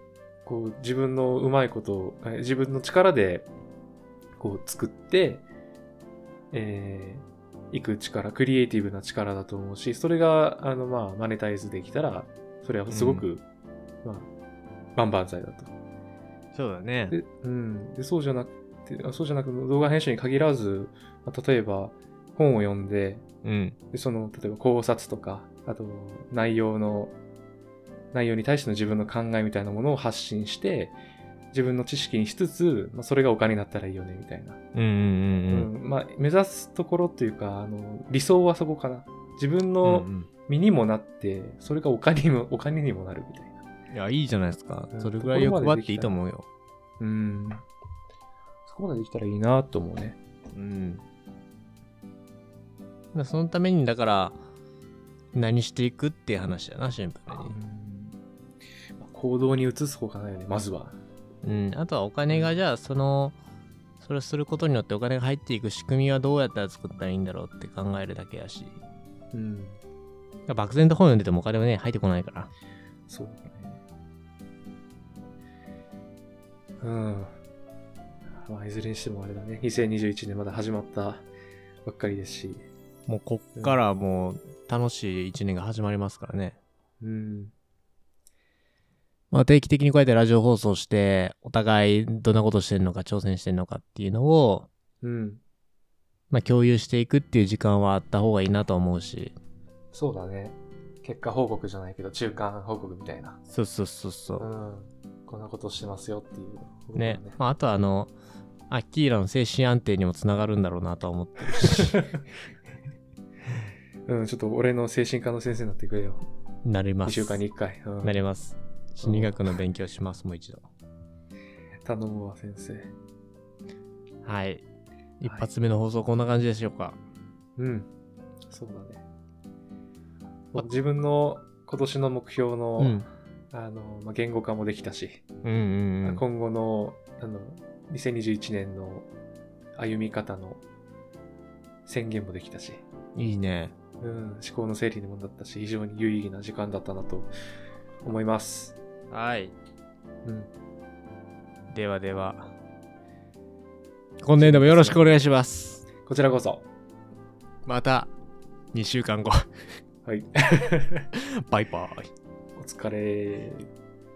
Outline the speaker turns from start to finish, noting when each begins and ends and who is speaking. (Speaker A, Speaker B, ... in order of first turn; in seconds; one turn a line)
Speaker A: 0.5-3.5
Speaker A: 4.4-5.4
Speaker A: 6.5-13.4
Speaker B: 12.9-13.2
Speaker A: 15.0-15.7
Speaker B: 16.6-17.1
Speaker A: 17.1-23.2
Speaker B: 23.4-23.8
Speaker A: 23.9-27.1
Speaker A: 28.1-30.9
Speaker A: 31.5-34.6
Speaker B: 34.7-35.7
Speaker A: 35.5-43.6
Speaker B: 39.8-40.3
Speaker B: 43.9-46.5
Speaker A: 44.9-46.2
Speaker A: 47.0-47.6
Speaker A: 48.7-50.2
Speaker B: 50.5-51.0
Speaker B: 53.1-54.4
Speaker B: 55.3-57.5
Speaker A: 57.5-58.2
Speaker A: 59.0-61.0
Speaker B: 61.4-63.4
Speaker A: 62.3-62.6
Speaker B: 64.0-68.8
Speaker A: 69.3-69.8
Speaker B: 70.5-72.5
Speaker A: 73.1-73.8
Speaker A: 76.8-77.3
Speaker A: 78.4-81.3
Speaker A: 81.9-82.6
Speaker B: 83.1-86.6
Speaker A: 87.0-87.5
Speaker B: 89.3-94.7
Speaker A: 95.0-95.4
Speaker B: 96.3-99.3
Speaker A: 99.9-103.4
Speaker B: 103.5-104.5
Speaker A: 104.4-107.4
Speaker B: 107.0-108.1
Speaker B: 108.7-112.0
Speaker A: 111.5-112.2
Speaker A: 114.1-116.2
Speaker B: 116.7-117.4
Speaker A: 117.0-118.2
Speaker B: 118.0-120.6
Speaker A: 119.0-119.4
Speaker A: 121.8-122.9
Speaker B: 124.2-124.6
Speaker B: 125.2-127.0
Speaker A: 127.6-127.9
Speaker A: 128.5-129.0
Speaker A: 130.5-135.2
Speaker B: 132.8-133.1
Speaker B: 135.4-136.2
Speaker A: 136.0-139.1
Speaker A: 139.8-140.6
Speaker A: 141.9-142.8
Speaker B: 143.2-143.7
Speaker A: 144.0-147.3
Speaker A: 148.0-148.8
Speaker B: 149.1-149.6
Speaker B: 151.7-152.5
Speaker B: 154.2-155.9
Speaker A: 154.4-155.2
Speaker A: 156.0-156.7
Speaker B: 157.7-158.1
Speaker B: 158.7-159.4
Speaker A: 160.1-161.1
Speaker B: 161.1-162.1
Speaker A: 162.6-163.7